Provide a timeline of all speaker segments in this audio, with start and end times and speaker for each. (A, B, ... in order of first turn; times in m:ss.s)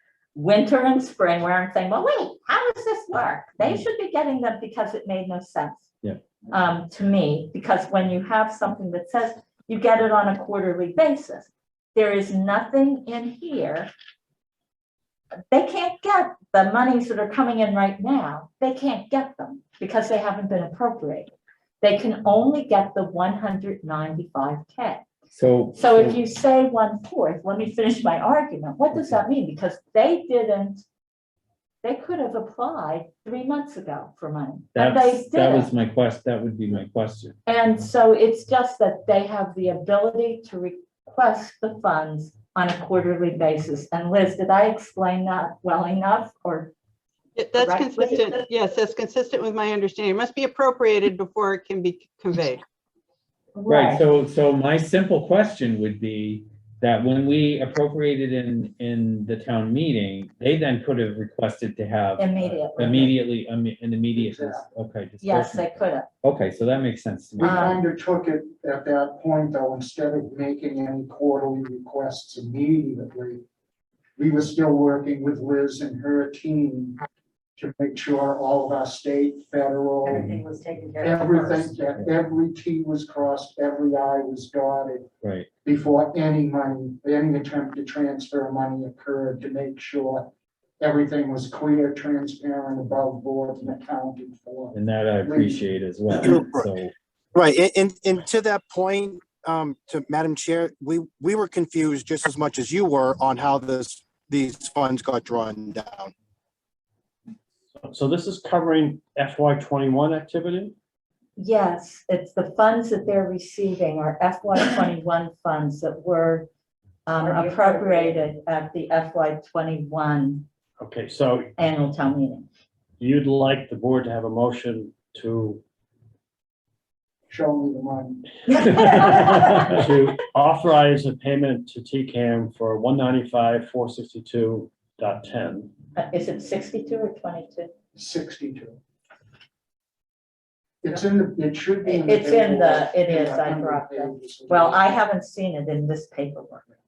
0:00.3-0:05.9 A
0:06.5-0:13.9 A
0:15.5-0:25.0 A
0:25.3-0:26.2 B
0:25.8-0:30.8 A
0:31.8-0:35.7 A
0:34.7-0:37.4 B
0:37.5-0:46.7 A
0:47.4-0:52.6 C
0:47.6-0:48.4 A
0:53.5-0:54.0 A
0:53.7-1:07.8 B
1:02.2-1:03.1 A
1:04.2-1:04.6 D
1:05.2-1:06.1 A
1:07.4-1:13.4 D
1:07.4-1:07.7 A
1:14.2-1:17.0 D
1:17.6-1:20.4 D
1:20.1-1:21.7 E
1:21.0-1:25.1 D
1:25.2-1:25.5 B
1:25.6-1:35.6 D
1:34.7-1:36.9 B
1:36.1-1:36.7 F
1:37.3-1:46.1 F
1:47.8-1:50.7 G
1:51.4-1:56.5 A
1:57.0-2:00.4 A
1:57.3-1:58.1 E
2:00.8-2:01.5 G
2:01.6-2:02.4 A
2:03.0-2:05.6 G
2:07.3-2:08.9 D
2:08.5-2:09.7 A
2:08.6-2:15.7 G
2:15.9-2:17.7 A
2:17.9-2:18.8 D
2:20.8-2:24.9 D
2:21.8-2:26.6 A